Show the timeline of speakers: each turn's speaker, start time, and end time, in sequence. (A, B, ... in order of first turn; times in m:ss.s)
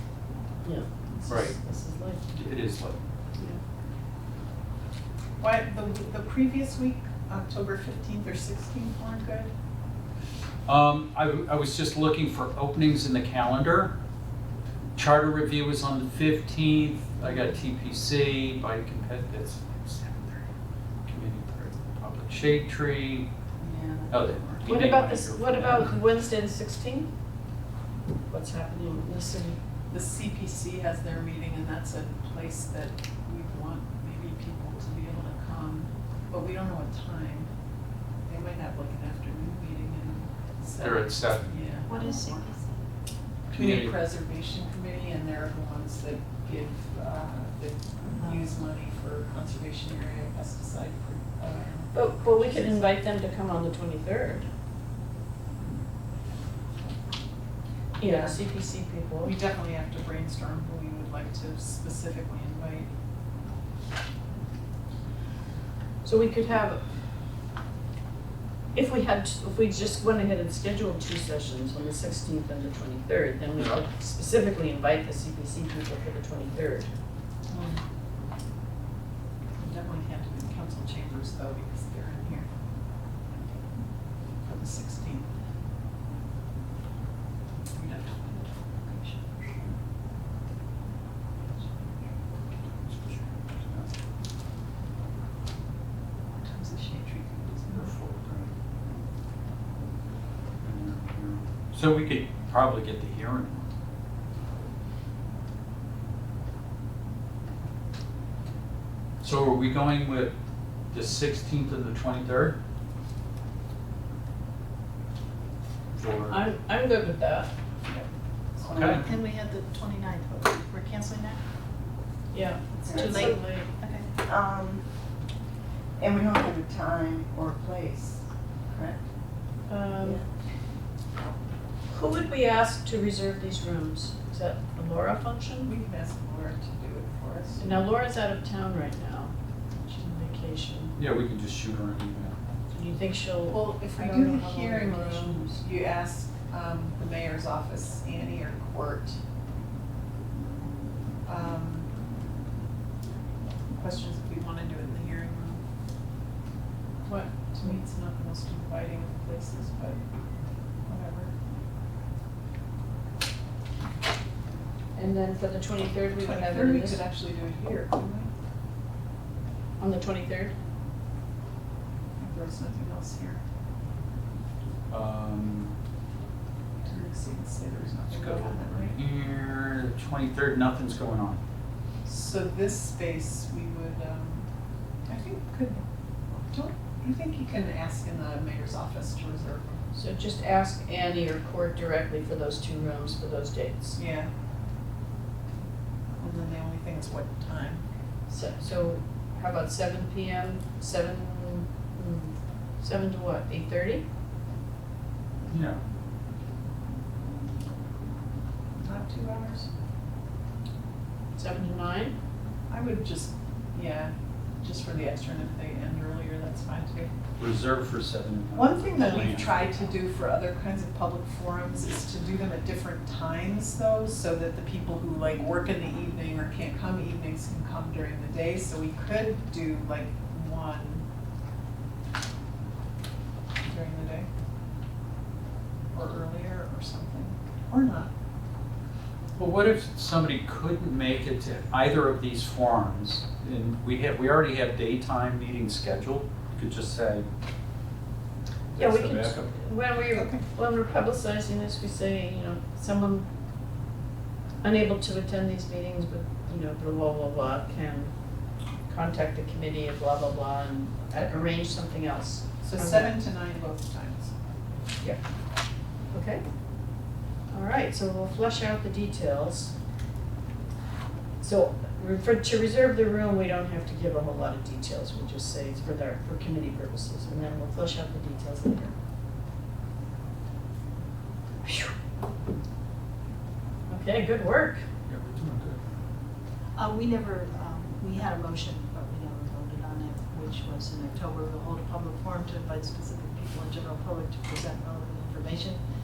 0:00.6-0:02.2 A
0:02.3-0:03.0 B
0:05.4-0:09.5 C
0:10.7-0:13.9 B
0:15.0-0:20.5 B
0:21.0-0:23.3 B
0:23.6-0:24.6 C
0:24.1-0:25.9 B
0:24.6-0:27.1 A
0:28.3-0:29.6 A
0:29.9-0:37.5 C
0:38.3-0:42.3 C
0:40.8-0:41.5 B
0:41.9-0:42.8 D
0:43.5-0:44.0 B
0:43.5-0:52.8 C
0:51.9-0:54.5 A
0:58.0-0:58.4 C
0:58.0-0:59.4 A
0:59.2-1:02.9 C
1:06.0-1:06.8 A
1:08.7-1:16.9 A
1:17.5-1:17.8 C
1:19.6-1:22.5 C
1:24.4-1:25.3 C
1:27.8-1:29.7 C
1:32.5-1:33.9 B
1:36.4-1:38.0 C
1:37.7-1:38.5 B
1:40.6-1:43.7 B
1:49.2-1:50.3 B
1:50.9-1:52.6 B
1:56.0-1:56.4 B
1:56.3-1:57.5 A
1:58.6-1:59.0 E
1:58.6-1:59.0 B
1:58.9-2:01.4 D
2:02.3-2:03.7 A
2:02.8-2:03.3 E
2:02.9-2:04.2 D
2:04.2-2:04.8 E
2:06.0-2:09.0 E
2:09.7-2:10.2 A
2:11.9-2:15.7 A
2:15.6-2:17.8 C
2:17.6-2:19.3 A
2:19.9-2:21.0 A
2:21.0-2:22.4 B
2:22.7-2:25.6 A
2:23.5-2:29.2 C
2:31.3-2:31.9 C
2:33.7-2:35.6 C
2:37.1-2:40.0 C
2:40.9-2:41.3 C
2:45.0-2:47.0 A
2:46.2-2:48.3 C
2:49.8-2:50.5 A
2:52.2-2:53.4 C
2:54.9-2:55.8 B
2:56.8-2:59.0 C
2:58.1-3:01.4 B
3:02.0-3:04.5 C
3:05.1-3:05.8 C
3:06.5-3:09.7 C
3:10.0-3:14.0 A
3:14.0-3:14.3 C
3:16.2-3:17.8 C
3:18.3-3:24.0 A
3:25.5-3:25.8 B
3:28.8-3:29.7 C
3:31.4-3:32.2 A
3:32.7-3:37.1 C
3:37.4-3:39.7 B
3:38.5-3:51.0 C
3:53.6-3:54.3 C
3:55.9-3:58.1 C
3:59.4-4:07.3 B
4:08.7-4:09.5 B
4:08.8-4:13.3 A
4:10.1-4:10.4 C
4:14.6-4:18.1 A
4:18.9-4:23.2 A
4:22.6-4:24.3 C
4:26.1-4:26.4 A
4:27.5-4:29.7 A
4:31.4-4:38.9 A
4:41.6-4:41.9 A
4:43.9-4:44.8 A
4:45.1-4:45.8 B
4:46.8-4:55.8 D